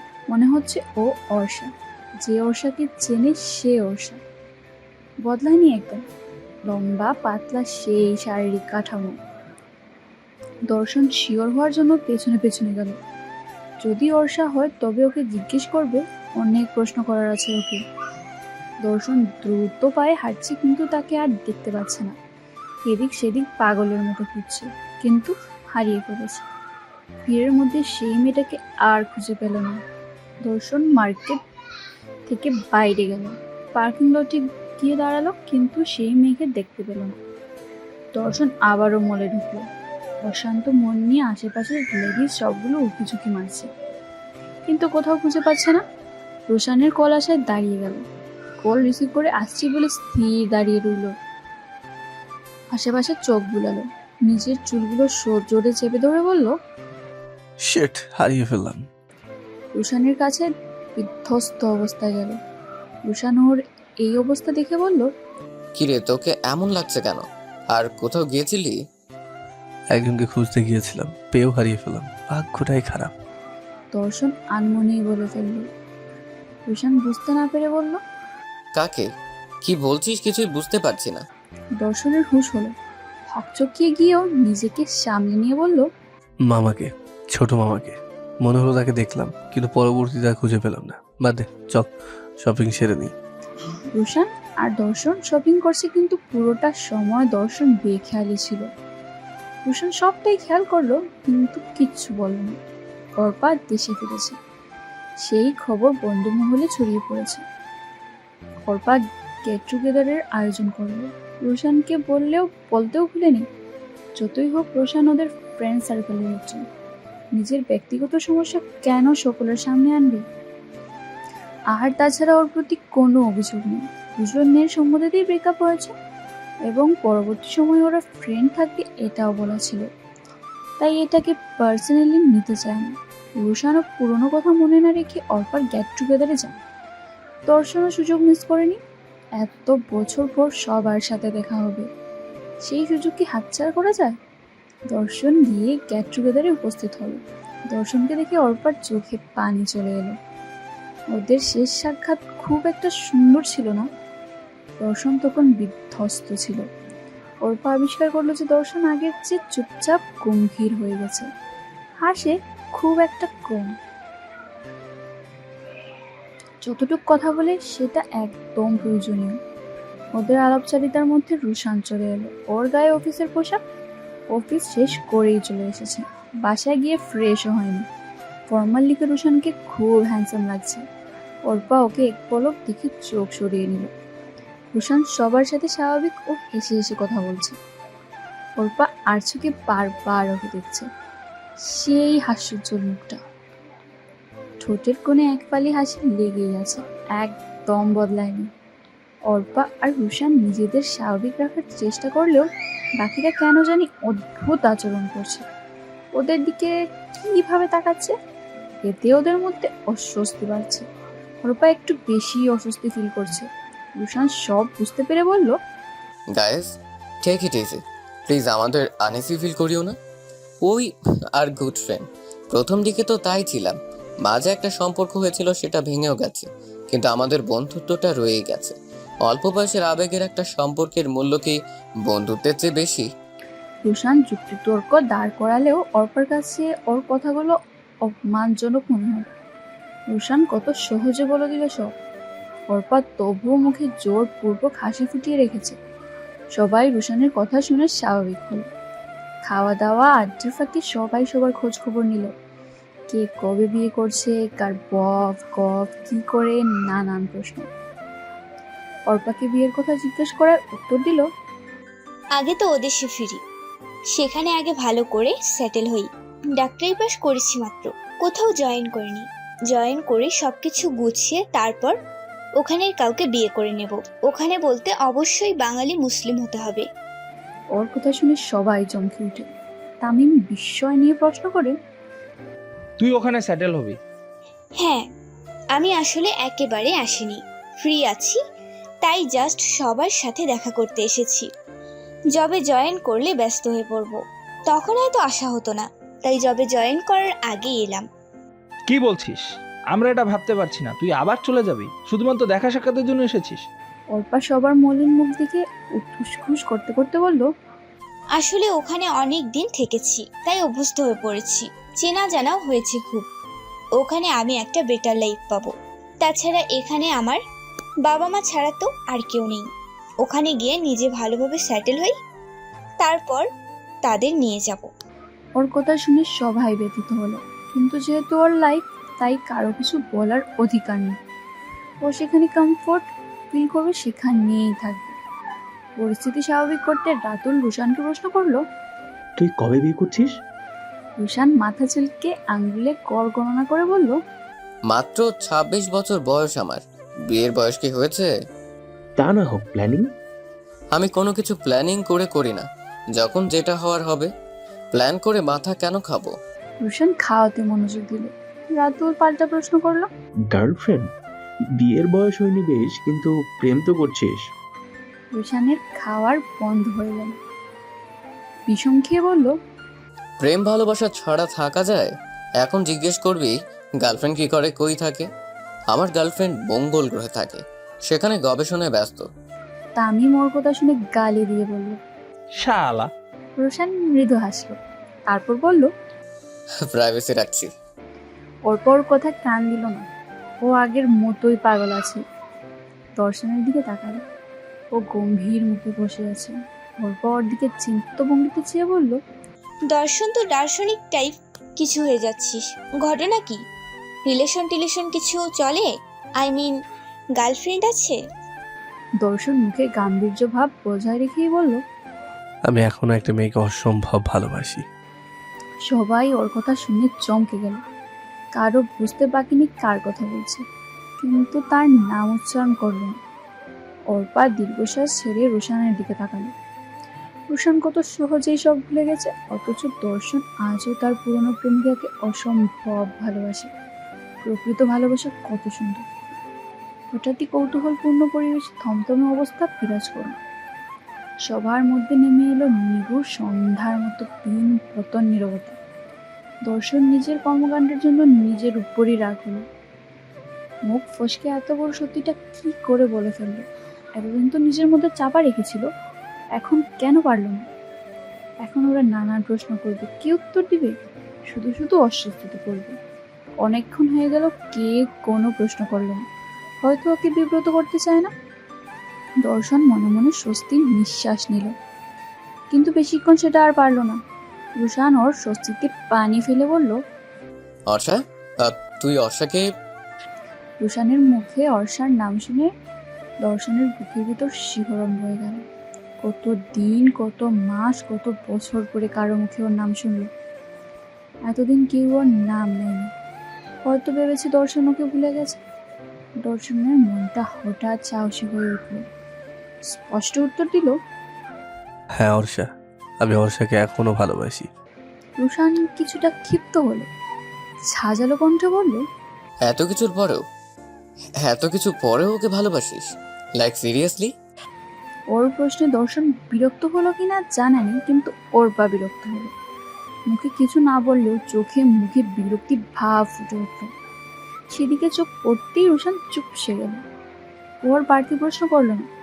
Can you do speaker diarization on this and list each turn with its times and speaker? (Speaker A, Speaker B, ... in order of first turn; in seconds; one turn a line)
Speaker A: 0.3-4.2
Speaker A: 5.2-6.0
Speaker A: 6.7-9.2
Speaker A: 10.7-13.0
Speaker A: 13.8-17.8
Speaker A: 18.8-22.1
Speaker A: 22.9-26.4
Speaker A: 27.3-29.8
Speaker A: 30.4-31.4
Speaker A: 32.3-37.2
Speaker A: 38.1-39.6
Speaker A: 40.2-43.7
Speaker A: 44.7-45.8
Speaker A: 46.5-48.0
Speaker A: 48.6-51.1
Speaker A: 52.7-56.5
Speaker B: 57.6-58.8
Speaker A: 59.8-62.4
Speaker A: 63.1-65.1
Speaker C: 65.8-68.8
Speaker B: 69.9-73.1
Speaker A: 73.9-75.7
Speaker A: 76.7-78.0
Speaker C: 78.7-79.1
Speaker C: 79.6-81.2
Speaker A: 81.8-82.7
Speaker A: 83.3-85.9
Speaker B: 86.5-91.9
Speaker B: 92.4-93.1
Speaker A: 93.9-98.7
Speaker A: 99.7-102.6
Speaker A: 103.2-104.4
Speaker A: 105.2-107.4
Speaker A: 108.7-113.5
Speaker A: 114.2-116.6
Speaker A: 117.3-120.2
Speaker A: 121.7-125.9
Speaker A: 126.7-129.9
Speaker A: 130.8-136.6
Speaker A: 137.5-138.8
Speaker A: 139.4-141.9
Speaker A: 142.6-144.2
Speaker A: 144.9-150.2
Speaker A: 151.1-153.9
Speaker A: 154.8-156.7
Speaker A: 157.4-161.3
Speaker A: 162.0-163.8
Speaker A: 166.6-169.4
Speaker A: 170.1-173.6
Speaker A: 174.3-177.8
Speaker A: 178.5-180.8
Speaker A: 181.5-183.9
Speaker A: 184.7-187.6
Speaker A: 188.6-190.9
Speaker A: 191.6-193.2
Speaker A: 194.6-198.5
Speaker A: 199.3-205.4
Speaker A: 206.1-208.1
Speaker A: 208.8-210.9
Speaker A: 211.4-215.6
Speaker C: 216.3-216.7
Speaker C: 217.2-219.9
Speaker C: 220.6-233.1
Speaker A: 233.8-239.3
Speaker A: 240.1-241.9
Speaker A: 242.7-245.8
Speaker A: 246.5-248.7
Speaker A: 249.4-252.3
Speaker A: 253.1-257.7
Speaker A: 259.1-261.2
Speaker D: 262.4-263.4
Speaker D: 264.1-272.0
Speaker D: 272.6-276.9
Speaker A: 277.7-279.5
Speaker A: 280.0-281.8
Speaker E: 283.0-284.0
Speaker D: 284.8-285.1
Speaker D: 285.7-288.4
Speaker D: 289.0-291.5
Speaker D: 292.3-298.0
Speaker E: 298.9-303.6
Speaker A: 304.1-307.5
Speaker D: 308.4-313.3
Speaker D: 314.0-317.4
Speaker D: 318.0-319.7
Speaker D: 320.2-322.1
Speaker D: 323.0-323.5
Speaker D: 324.1-324.9
Speaker A: 325.6-331.2
Speaker A: 332.0-335.1
Speaker A: 336.0-338.6
Speaker F: 339.4-340.3
Speaker A: 341.2-344.2
Speaker C: 344.9-348.3
Speaker F: 349.2-350.0
Speaker C: 350.9-354.3
Speaker C: 354.9-356.3
Speaker A: 356.8-360.1
Speaker F: 360.5-361.0
Speaker F: 361.8-364.4
Speaker A: 365.3-367.4
Speaker A: 368.7-369.5
Speaker C: 370.4-375.3
Speaker C: 375.9-379.3
Speaker A: 380.0-382.0
Speaker E: 382.6-383.1
Speaker A: 383.6-384.8
Speaker A: 385.3-385.9
Speaker C: 386.8-387.7
Speaker A: 388.7-390.1
Speaker A: 390.6-392.2
Speaker A: 393.2-394.2
Speaker A: 394.9-399.2
Speaker D: 399.9-403.6
Speaker D: 404.2-406.8
Speaker D: 407.4-408.2
Speaker A: 409.2-411.8
Speaker B: 412.7-414.8
Speaker A: 415.9-417.8
Speaker A: 418.6-420.6
Speaker A: 421.2-423.2
Speaker A: 424.1-426.5
Speaker A: 427.5-433.7
Speaker A: 434.4-436.0
Speaker A: 437.1-440.4
Speaker A: 441.4-445.8
Speaker A: 446.7-449.6
Speaker A: 450.9-455.9
Speaker A: 456.6-457.6
Speaker A: 458.6-460.9
Speaker A: 461.5-463.0
Speaker A: 463.6-466.2
Speaker A: 466.8-468.3
Speaker A: 469.4-471.7
Speaker A: 472.7-474.2
Speaker A: 474.8-477.0
Speaker C: 477.9-479.7
Speaker A: 480.8-482.7
Speaker A: 483.4-485.6
Speaker A: 486.2-490.3
Speaker A: 491.5-493.1
Speaker A: 493.9-495.6
Speaker A: 496.4-499.0
Speaker A: 499.9-500.9
Speaker B: 502.1-502.7
Speaker B: 503.2-504.7
Speaker A: 505.4-507.1
Speaker A: 507.9-509.0
Speaker C: 509.6-510.4
Speaker C: 511.4-513.1
Speaker C: 513.6-514.3
Speaker A: 515.3-519.5
Speaker A: 520.3-523.9
Speaker A: 524.7-527.0
Speaker A: 527.8-529.0